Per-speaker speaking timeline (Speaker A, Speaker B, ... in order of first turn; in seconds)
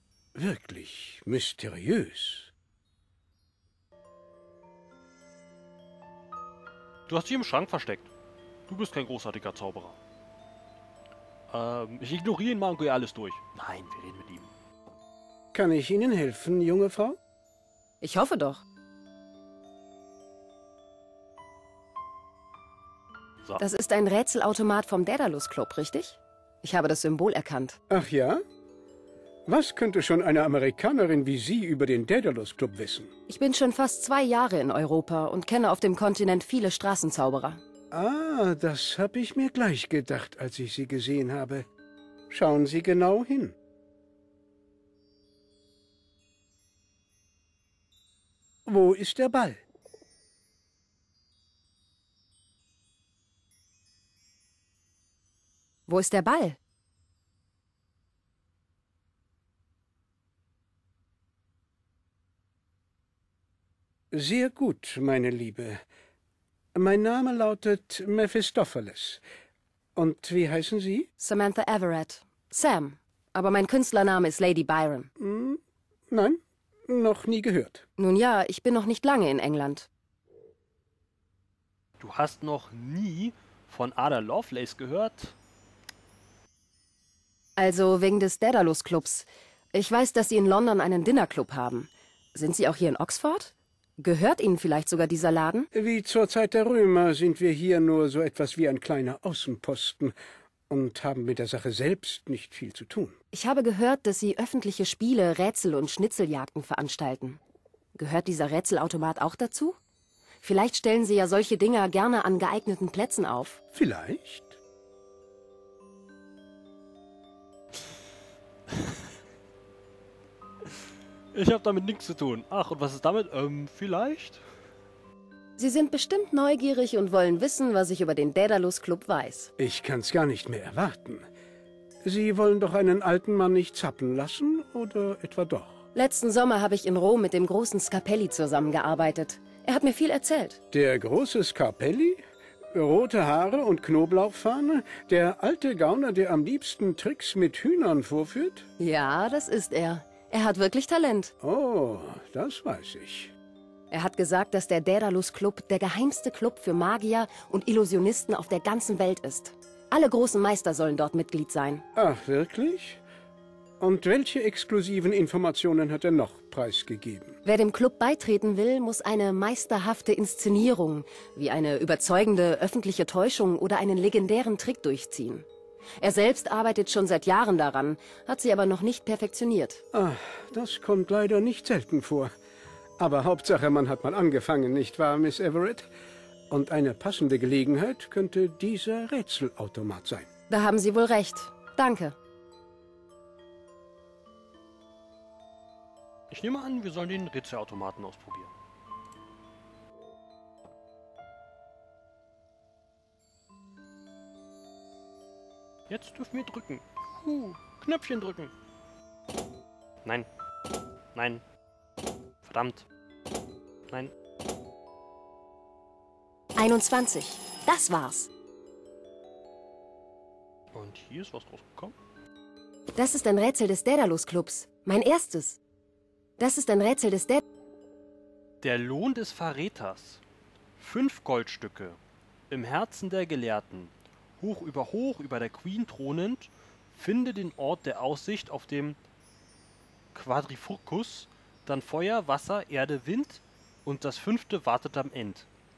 Speaker A: 0.3-2.5, 15.5-17.2, 27.9-28.4, 29.5-33.1, 37.9-41.6, 42.3-43.5, 48.6-49.6, 64.1-65.8, 66.7-69.2, 70.0-71.1, 75.2-77.8, 95.7-100.1, 100.7-103.1, 113.7-114.6, 129.6-131.2, 132.0-135.8, 140.7-142.2, 142.7-148.7, 151.4-153.3, 161.9-163.0, 163.8-167.4, 179.9-182.3, 183.0-185.9, 186.5-190.2
Speaker B: 7.1-8.1, 8.7-10.0, 11.5-14.5, 82.0-85.3, 121.3-124.4, 196.3-198.5, 205.9-208.5, 211.1-211.4, 212.4-212.9, 220.7-221.9, 228.6-230.2, 230.8-232.0, 232.5-239.0, 240.1-245.5
Speaker C: 18.0-18.6, 23.6-27.8, 33.3-37.6, 55.9-56.6, 71.2-75.1, 78.0-79.9, 87.6-95.7, 103.3-107.4, 107.9-109.8, 110.4-113.6, 125.6-129.5, 135.9-140.6, 148.8-151.3, 153.9-161.8, 167.4-175.4, 176.0-179.8, 190.5-192.1, 216.6-218.3, 222.9-225.6, 226.4-227.4